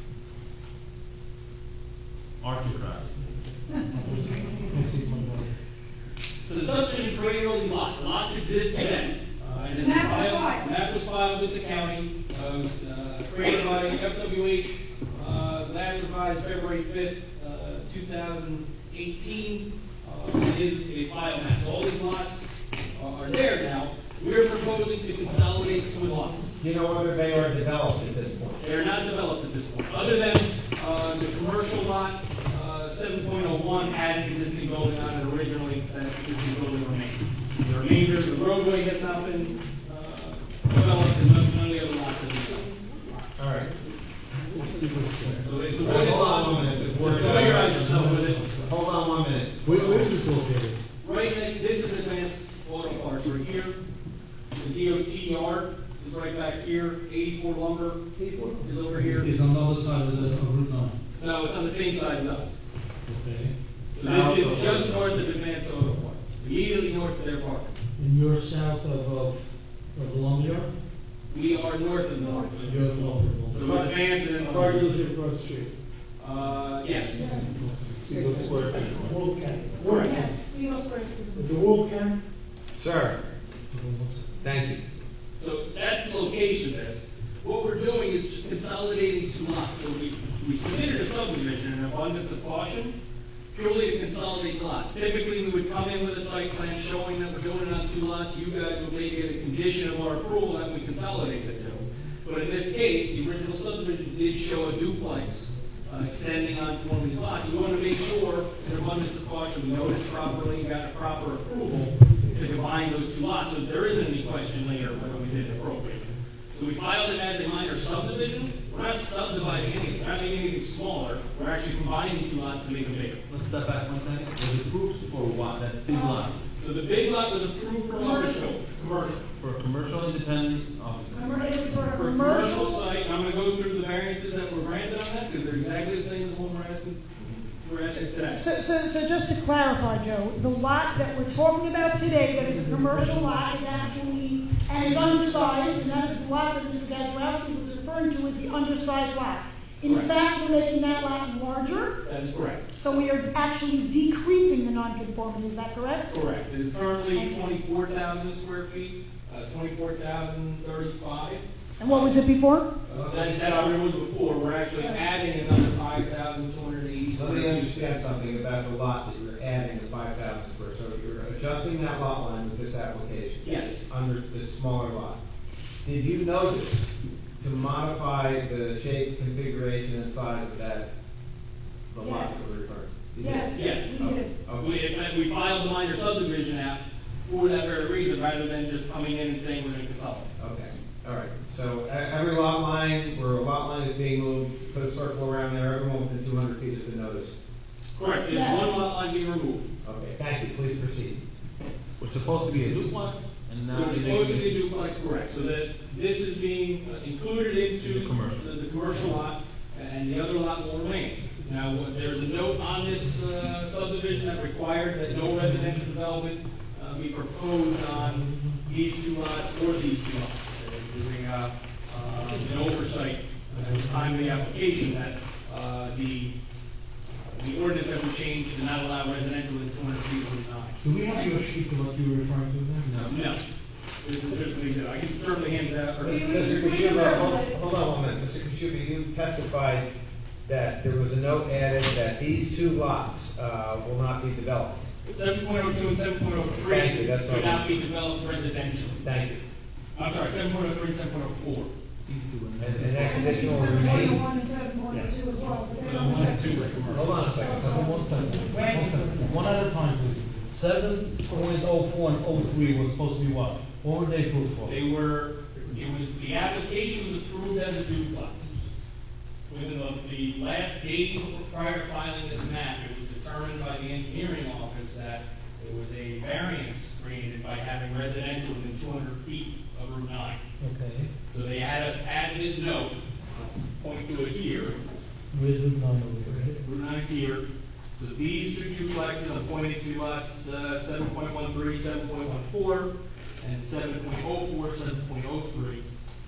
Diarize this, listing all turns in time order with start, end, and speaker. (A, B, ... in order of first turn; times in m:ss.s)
0:02.4-0:03.2 A
0:03.9-0:05.5 B
0:06.4-0:22.4 C
0:09.7-0:10.6 D
0:22.9-0:26.4 C
0:26.6-0:28.6 E
0:28.6-0:42.7 C
0:43.4-0:43.7 E
0:44.5-0:45.4 B
0:45.4-0:48.5 C
0:45.8-0:47.8 E
0:47.0-0:48.7 B
0:48.6-0:50.0 E
0:49.6-0:50.8 B
0:51.0-0:53.8 C
0:54.6-0:58.0 C
0:58.2-1:00.9 B
0:58.6-0:59.3 C
1:01.1-1:02.5 C
1:03.0-1:03.5 B
1:03.9-1:07.7 C
1:04.0-1:05.2 A
1:04.2-1:04.7 B
1:08.0-1:10.7 B
1:11.3-1:14.9 C
1:12.2-1:12.5 D
1:12.6-1:13.7 B
1:14.4-1:15.7 F
1:14.6-1:14.9 B
1:16.2-1:17.1 C
1:16.5-1:18.3 B
1:17.1-1:17.5 D
1:18.0-1:20.3 F
1:18.1-1:19.2 A
1:19.8-1:20.2 C
1:19.9-1:21.5 D
1:21.4-1:22.2 F
1:22.8-1:23.4 E
1:23.7-1:24.2 B
1:24.4-1:24.8 E
1:25.4-1:32.9 C
1:33.5-2:03.2 C
2:03.3-2:06.4 A
2:05.8-2:06.3 D
2:06.6-2:09.2 C
2:07.9-2:08.4 D
2:09.4-2:11.5 A
2:11.1-2:12.8 D
2:11.9-2:17.0 C
2:17.6-2:18.4 C
2:18.2-2:31.9 D
2:22.4-2:23.5 F
2:24.8-2:26.1 C
2:29.8-2:30.1 C
2:32.0-2:32.6 C
2:32.8-2:36.2 D
2:36.1-2:42.2 C
2:41.8-2:42.7 D
2:42.8-2:48.0 C
2:42.9-2:43.7 E
2:47.1-2:55.2 E
2:53.4-2:53.8 C
2:55.8-2:56.9 E
2:57.4-3:00.9 E
3:01.9-3:04.7 E
3:02.0-3:02.5 D
3:03.2-3:04.3 D
3:03.5-3:03.9 C
3:04.5-3:10.3 C
3:10.4-3:17.4 E
3:18.0-3:19.6 C
3:18.3-3:18.8 D
3:19.8-3:21.2 E
3:22.0-3:24.6 A
3:23.7-3:46.3 C
3:27.8-3:28.7 A
3:35.3-3:35.8 B
3:37.9-3:38.6 B
3:43.5-3:44.4 B
3:47.1-3:50.8 C
3:50.8-3:51.2 A
3:50.8-3:53.0 B
3:52.7-3:53.1 A
3:53.1-3:53.4 C
3:54.0-3:57.0 C
3:56.0-3:57.6 D
3:56.1-3:59.9 E
4:00.5-4:04.9 E
4:05.1-4:09.0 C
4:06.6-4:07.8 E
4:09.0-4:09.4 E
4:10.0-4:11.7 C
4:12.0-4:13.9 A
4:12.6-4:14.2 E
4:12.9-4:19.4 D
4:15.8-4:17.3 C
4:16.8-4:17.9 E
4:17.5-4:24.7 B
4:24.6-4:28.6 C
4:29.5-4:40.4 C
4:40.6-4:41.1 B
4:41.3-4:44.8 C
4:45.3-4:46.6 B
4:46.3-4:47.4 C
4:48.0-4:55.8 C